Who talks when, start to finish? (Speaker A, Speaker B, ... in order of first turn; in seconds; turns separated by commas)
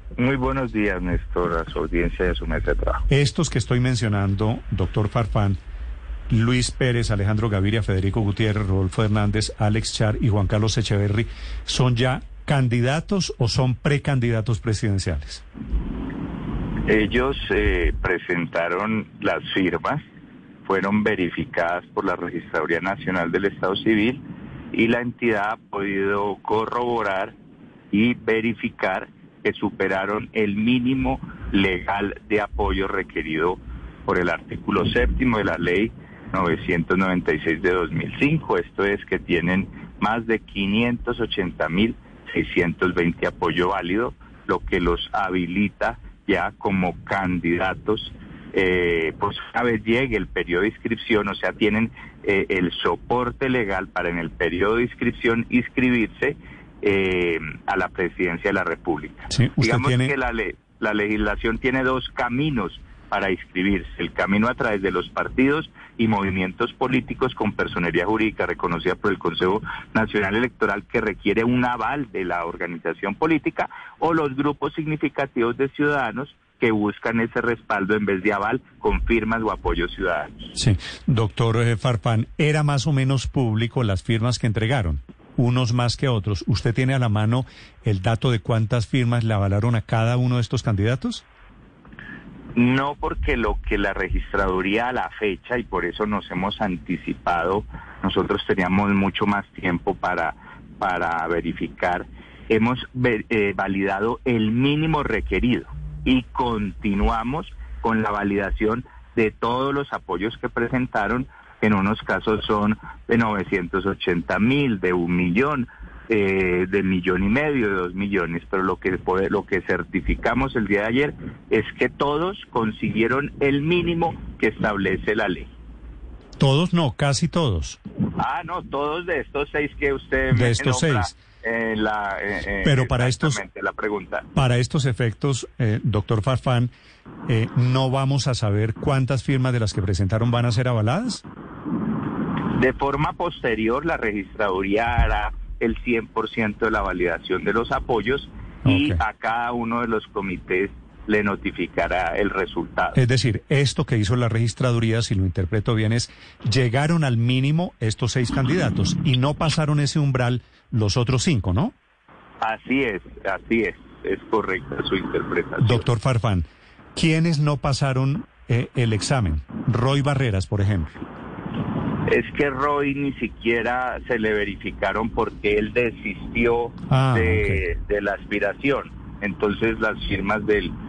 Speaker A: 0.2-3.0, Speaker B: 3.1-5.6, Speaker B: 6.3-15.4, Speaker A: 16.9-20.0, Speaker A: 20.6-24.2, Speaker A: 24.7-27.4, Speaker A: 27.9-80.5, Speaker B: 59.3-60.1, Speaker B: 80.5-91.2, Speaker A: 92.5-125.5, Speaker B: 126.4-127.8, Speaker A: 128.2-134.2, Speaker B: 130.3-131.1, Speaker B: 132.6-133.4, Speaker B: 134.3-136.7, Speaker B: 137.3-141.2, Speaker A: 142.5-153.0, Speaker B: 148.7-149.0, Speaker B: 152.9-161.7, Speaker A: 162.4-165.8, Speaker B: 165.6-170.9, Speaker A: 172.1-180.8, Speaker B: 176.9-177.6